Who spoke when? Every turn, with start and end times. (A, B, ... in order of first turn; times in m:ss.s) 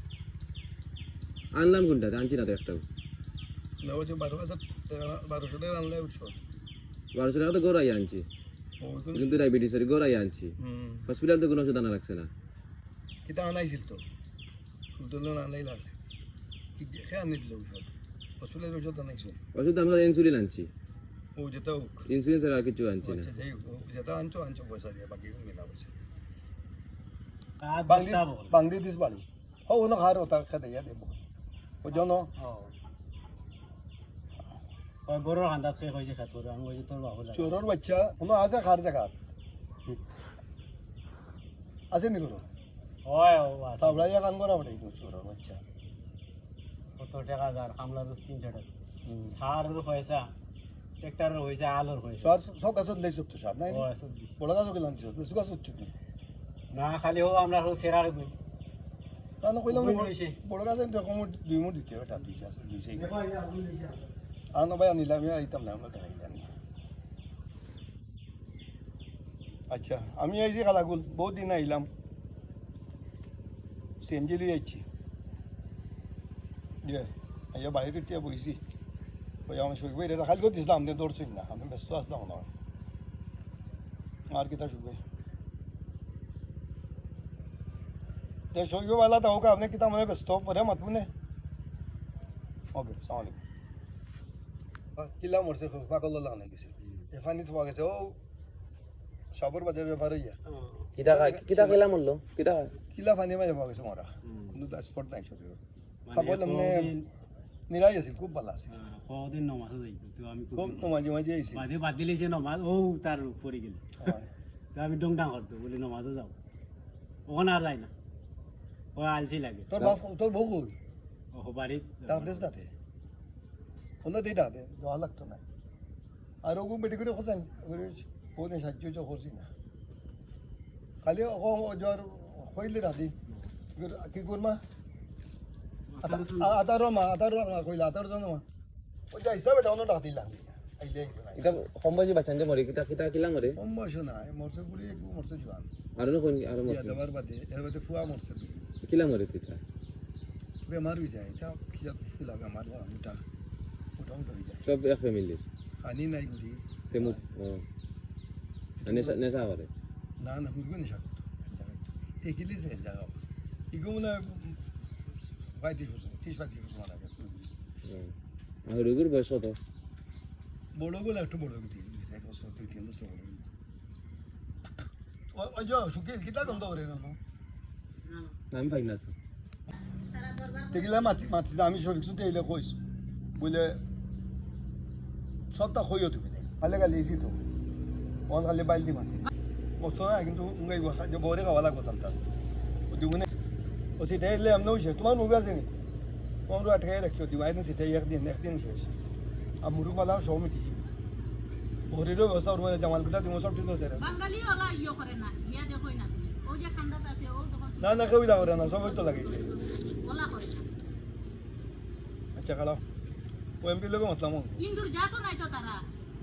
0:01.6-0:02.8 A
0:03.8-0:06.4 B
0:07.1-0:08.2 A
0:08.8-0:09.4 B
0:09.1-0:10.6 A
0:10.6-0:11.1 B
0:11.1-0:12.3 A
0:13.2-0:14.0 B
0:14.9-0:16.0 B
0:16.8-0:19.4 B
0:19.5-0:20.7 A
0:21.4-0:22.1 B
0:22.1-0:23.3 A
0:23.0-0:25.9 B
0:27.6-0:28.6 C
0:27.9-0:31.2 B
0:31.8-0:32.3 B
0:32.4-0:32.7 C
0:35.1-0:37.5 C
0:37.3-0:39.1 B
0:41.9-0:42.4 B
0:43.0-0:44.1 C
0:43.8-0:45.6 B
0:47.0-0:48.7 C
0:49.0-0:49.3 B
0:49.3-0:50.3 C
0:51.0-0:52.3 C
0:52.2-0:53.9 B
0:53.7-0:54.4 C
0:54.4-0:55.9 B
0:56.7-0:58.3 C
0:59.4-1:03.1 B
0:59.7-1:00.4 C
1:02.9-1:04.1 C
1:04.5-1:06.5 B
1:09.7-1:11.9 B
1:14.0-1:14.8 B
1:16.8-1:18.6 B
1:19.5-1:22.5 B
1:24.3-1:25.0 B
1:28.5-1:31.1 B
1:32.7-1:33.4 B
1:35.0-1:38.2 B
1:39.3-1:40.4 B
1:40.4-1:40.9 C
1:41.0-1:42.7 A
1:41.0-1:41.8 B
1:42.9-1:45.6 B
1:44.2-1:44.6 C
1:46.1-1:47.1 C
1:46.1-1:46.9 B
1:47.7-1:48.7 B
1:48.7-1:50.9 C
1:50.5-1:51.7 B
1:51.5-1:53.8 C
1:54.0-1:54.3 B
1:54.7-1:56.3 C
1:57.3-1:57.9 C
1:59.0-1:59.7 C
1:59.7-2:00.8 B
2:01.3-2:02.5 C
2:02.0-2:02.7 B
2:04.0-2:05.4 B
2:06.4-2:09.5 B
2:11.0-2:13.1 B
2:13.7-2:14.6 B
2:15.9-2:16.6 C
2:16.0-2:18.4 B
2:19.1-2:21.6 B
2:21.4-2:23.6 A
2:23.5-2:25.7 B
2:26.0-2:27.0 A
2:26.6-2:28.7 B
2:28.8-2:29.6 A
2:30.6-2:33.2 B
2:34.0-2:34.6 B
2:34.6-2:35.4 A
2:35.8-2:37.2 B
2:36.9-2:37.6 A
2:38.8-2:39.2 B
2:38.8-2:39.7 A
2:40.2-2:43.2 B
2:43.7-2:47.5 B
2:47.8-2:48.1 A
2:48.7-2:49.6 A
2:50.7-2:53.4 B
2:55.3-2:57.2 B
2:58.0-2:58.3 D
2:58.5-2:59.1 A
3:00.1-3:00.9 D
3:00.7-3:02.8 B
3:03.3-3:03.8 B
3:05.5-3:07.4 B
3:08.3-3:09.2 B
3:09.8-3:12.2 B
3:12.9-3:13.3 B
3:14.0-3:15.7 B
3:16.5-3:18.9 B
3:19.6-3:20.8 B
3:21.9-3:24.1 B
3:24.0-3:30.7 D
3:27.8-3:29.5 B
3:32.4-3:32.8 B
3:33.6-3:34.6 B
3:34.6-3:35.8 D